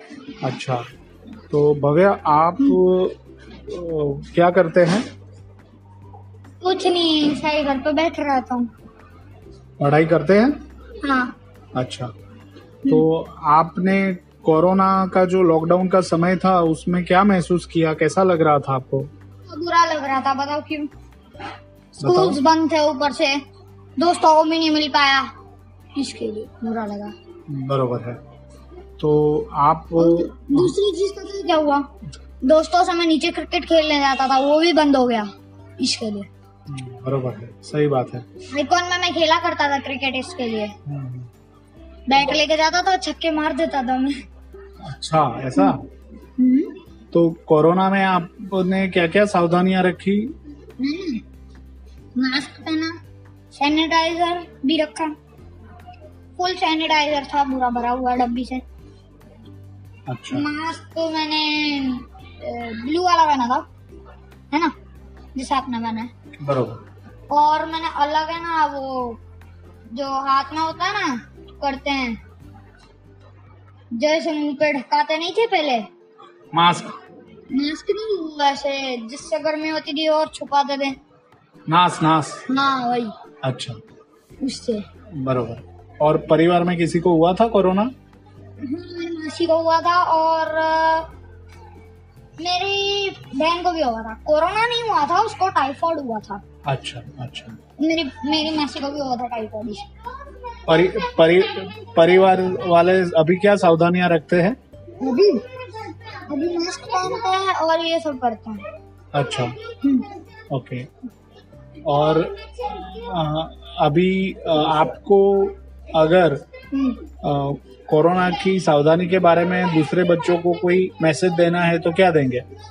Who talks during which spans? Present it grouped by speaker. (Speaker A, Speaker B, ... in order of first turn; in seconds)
Speaker A: 0.4-0.8, 1.5-5.0, 9.8-10.6, 11.7-12.1, 12.9-19.1, 22.0-22.4, 27.5-28.2, 29.0-30.7, 36.7-38.2, 40.9-41.3, 44.8-45.9, 47.1-50.3, 60.1-60.5, 66.4-66.8, 76.5-77.0, 81.7-82.4, 83.4-83.8, 85.1-87.9, 96.7-97.6, 100.7-104.6, 109.1-109.5, 110.5-110.9, 111.8-116.4, 117.2-122.4
Speaker B: 6.6-8.7, 11.0-11.3, 19.5-20.9, 22.0-23.4, 24.0-25.3, 25.9-27.1, 29.9-31.9, 32.4-36.3, 38.5-40.7, 42.1-44.2, 46.4-46.7, 50.8-51.2, 52.1-53.0, 53.5-55.1, 56.4-58.6, 60.3-63.6, 65.3-66.1, 67.3-69.2, 69.9-72.2, 73.9-75.9, 77.5-81.0, 82.5-83.1, 84.4-84.8, 88.6-91.1, 92.4-96.4, 97.8-99.8, 105.0-108.7, 109.8-110.1, 116.7-117.0